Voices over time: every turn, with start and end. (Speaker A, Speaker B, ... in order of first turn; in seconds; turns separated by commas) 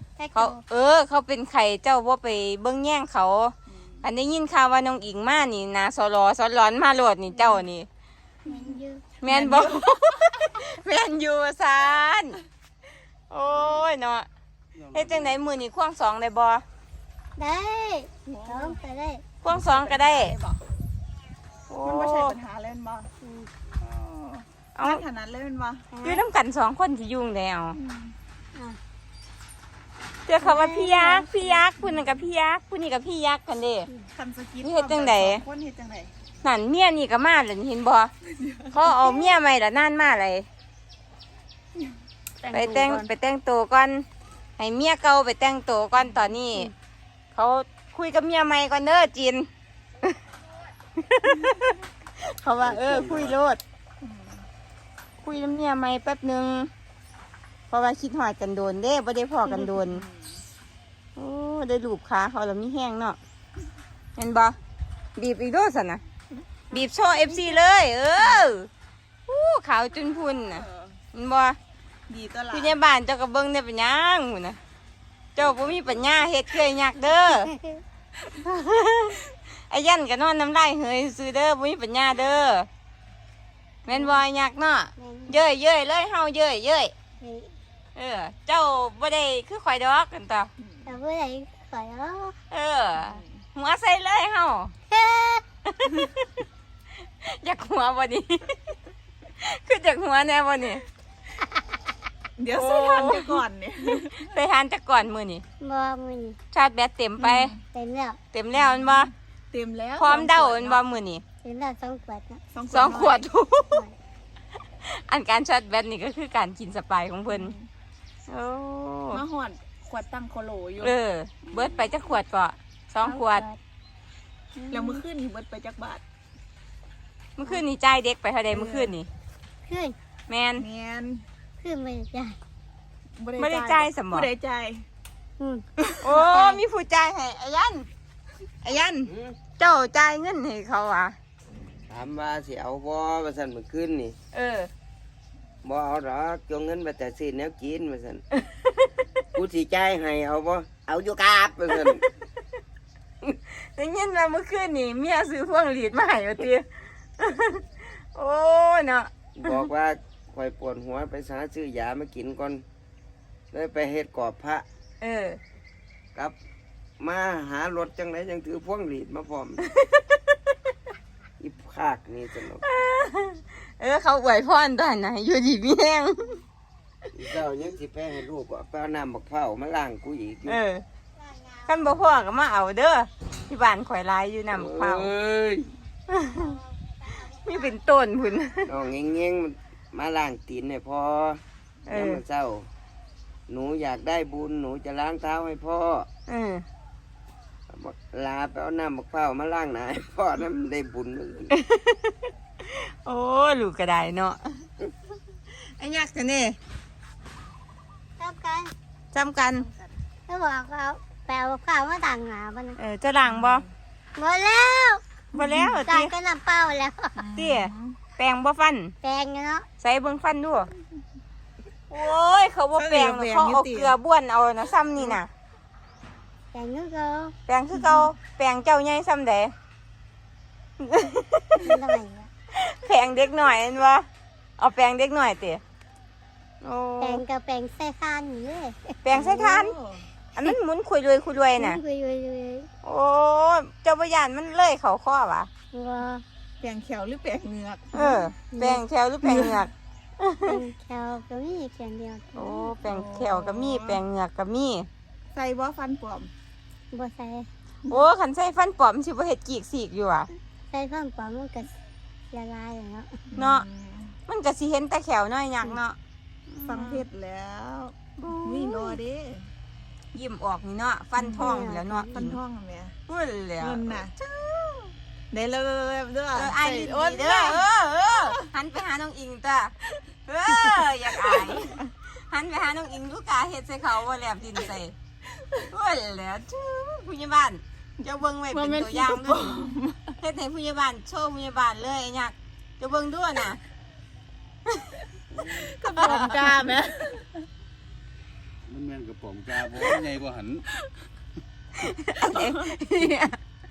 Speaker A: 0.2-0.6, Speaker B: 0.3-7.9, Speaker C: 3.7-4.1, Speaker A: 8.4-9.1, Speaker C: 8.5-8.7, Speaker B: 9.2-12.4, Speaker C: 9.3-9.8, Speaker B: 13.3-14.3, Speaker D: 14.8-15.4, Speaker B: 14.9-16.6, Speaker A: 17.4-19.2, Speaker C: 18.2-18.8, Speaker B: 19.4-20.4, Speaker C: 19.5-20.6, Speaker B: 21.7-22.4, Speaker C: 21.8-23.1, Speaker A: 23.2-23.5, Speaker C: 23.8-25.9, Speaker B: 24.8-25.0, Speaker A: 25.9-26.2, Speaker B: 26.0-27.8, Speaker C: 27.8-28.1, Speaker B: 30.3-33.9, Speaker A: 30.4-31.6, Speaker C: 34.1-36.1, Speaker B: 34.6-35.4, Speaker B: 36.4-38.1, Speaker C: 38.3-39.2, Speaker B: 38.7-40.5, Speaker B: 42.5-44.1, Speaker B: 44.6-46.7, Speaker B: 47.4-49.5, Speaker B: 51.0-53.6, Speaker D: 52.6-53.4, Speaker C: 54.0-54.5, Speaker B: 55.2-56.7, Speaker B: 57.7-60.0, Speaker C: 59.8-60.4, Speaker B: 61.2-63.2, Speaker B: 64.2-64.6, Speaker B: 65.2-66.0, Speaker A: 66.7-67.6, Speaker B: 66.7-68.7, Speaker B: 69.3-71.6, Speaker C: 70.1-70.9, Speaker C: 72.1-72.7, Speaker B: 72.5-74.6, Speaker B: 75.4-77.5, Speaker E: 75.4-76.0, Speaker A: 77.4-77.8, Speaker B: 78.4-82.7, Speaker B: 83.9-86.9, Speaker A: 85.0-85.4, Speaker A: 87.2-87.5, Speaker B: 88.0-90.5, Speaker C: 90.6-90.9, Speaker A: 90.8-92.3, Speaker B: 92.5-94.7, Speaker C: 93.0-93.3, Speaker A: 94.9-95.4, Speaker B: 95.7-96.5, Speaker B: 97.2-98.6, Speaker B: 99.4-100.8, Speaker C: 102.4-104.3, Speaker B: 102.5-103.4, Speaker B: 104.1-105.4, Speaker A: 105.6-106.4, Speaker B: 106.5-107.5, Speaker C: 107.2-107.6, Speaker A: 107.7-108.2, Speaker B: 108.3-109.1, Speaker C: 108.6-110.8, Speaker B: 110.0-111.2, Speaker A: 111.4-112.4, Speaker C: 112.5-113.2, Speaker B: 112.7-113.8, Speaker B: 114.8-117.5, Speaker C: 117.3-117.7, Speaker B: 118.3-119.2, Speaker C: 119.1-120.9, Speaker B: 120.8-123.5, Speaker C: 121.5-121.8, Speaker A: 123.0-123.6, Speaker C: 124.6-126.0, Speaker A: 124.7-125.0, Speaker B: 127.4-129.1, Speaker C: 128.5-128.9, Speaker A: 129.7-129.9, Speaker B: 130.3-130.7, Speaker C: 130.6-131.2, Speaker A: 131.6-132.4, Speaker C: 133.2-134.8, Speaker B: 133.4-134.3, Speaker A: 135.4-136.6, Speaker C: 135.8-136.1, Speaker B: 136.0-137.9, Speaker B: 138.6-141.2, Speaker E: 139.1-139.4, Speaker E: 141.9-144.2, Speaker B: 144.3-144.7, Speaker E: 145.6-148.2, Speaker B: 148.4-149.0, Speaker E: 149.3-152.1, Speaker B: 153.3-156.7, Speaker B: 157.2-159.1, Speaker E: 159.4-162.7, Speaker E: 163.5-164.7, Speaker B: 165.0-165.4, Speaker E: 167.0-169.6, Speaker B: 169.7-170.2, Speaker E: 171.4-172.6, Speaker B: 172.6-176.4, Speaker E: 177.1-180.6, Speaker B: 180.5-180.8, Speaker B: 181.7-185.1, Speaker E: 184.5-185.7, Speaker B: 186.1-186.5, Speaker A: 186.3-187.7, Speaker B: 187.3-188.7, Speaker E: 188.7-192.7, Speaker B: 191.9-192.2, Speaker E: 193.5-196.1, Speaker B: 196.3-196.7, Speaker E: 197.7-201.5, Speaker B: 201.6-204.7, Speaker B: 205.5-206.6, Speaker A: 208.2-208.7, Speaker B: 209.1-209.7, Speaker A: 210.3-212.8, Speaker B: 212.8-213.7, Speaker C: 213.2-213.7, Speaker A: 214.2-215.0, Speaker C: 215.3-215.9, Speaker B: 215.3-216.1, Speaker A: 215.8-217.2, Speaker C: 217.2-218.0, Speaker B: 217.4-218.9, Speaker A: 219.0-219.7, Speaker B: 219.8-220.7, Speaker B: 221.9-225.3, Speaker C: 222.8-223.9, Speaker A: 226.5-227.3, Speaker B: 227.5-229.5, Speaker C: 227.8-228.1, Speaker B: 230.8-231.8, Speaker A: 231.6-232.3, Speaker B: 232.5-234.1, Speaker B: 234.6-235.6, Speaker B: 236.6-237.2, Speaker A: 237.0-239.2, Speaker B: 239.0-239.8, Speaker C: 239.1-240.1, Speaker B: 240.3-241.8, Speaker A: 241.6-242.7, Speaker B: 242.8-245.5, Speaker A: 245.7-246.2, Speaker C: 246.6-247.9, Speaker B: 247.9-250.6, Speaker A: 248.0-248.8, Speaker C: 249.2-249.7, Speaker A: 250.4-252.7, Speaker B: 252.3-254.9, Speaker C: 252.8-254.0, Speaker C: 255.3-256.3, Speaker A: 256.9-257.5, Speaker B: 257.9-260.3, Speaker A: 260.7-261.7, Speaker A: 262.3-263.2, Speaker C: 263.3-264.1, Speaker B: 263.4-263.6, Speaker B: 264.3-266.0, Speaker B: 266.5-267.1, Speaker C: 266.6-269.5, Speaker B: 268.2-269.0, Speaker B: 270.1-272.4, Speaker C: 271.2-272.9, Speaker A: 271.4-272.1, Speaker B: 273.1-274.9, Speaker C: 273.6-274.1, Speaker C: 275.3-277.6, Speaker B: 276.3-279.8, Speaker B: 280.3-284.9, Speaker C: 280.5-281.8, Speaker B: 285.6-293.6, Speaker C: 288.5-290.1, Speaker D: 295.3-295.7, Speaker C: 295.5-297.4, Speaker B: 296.0-296.7, Speaker D: 298.7-300.7, Speaker B: 301.8-303.4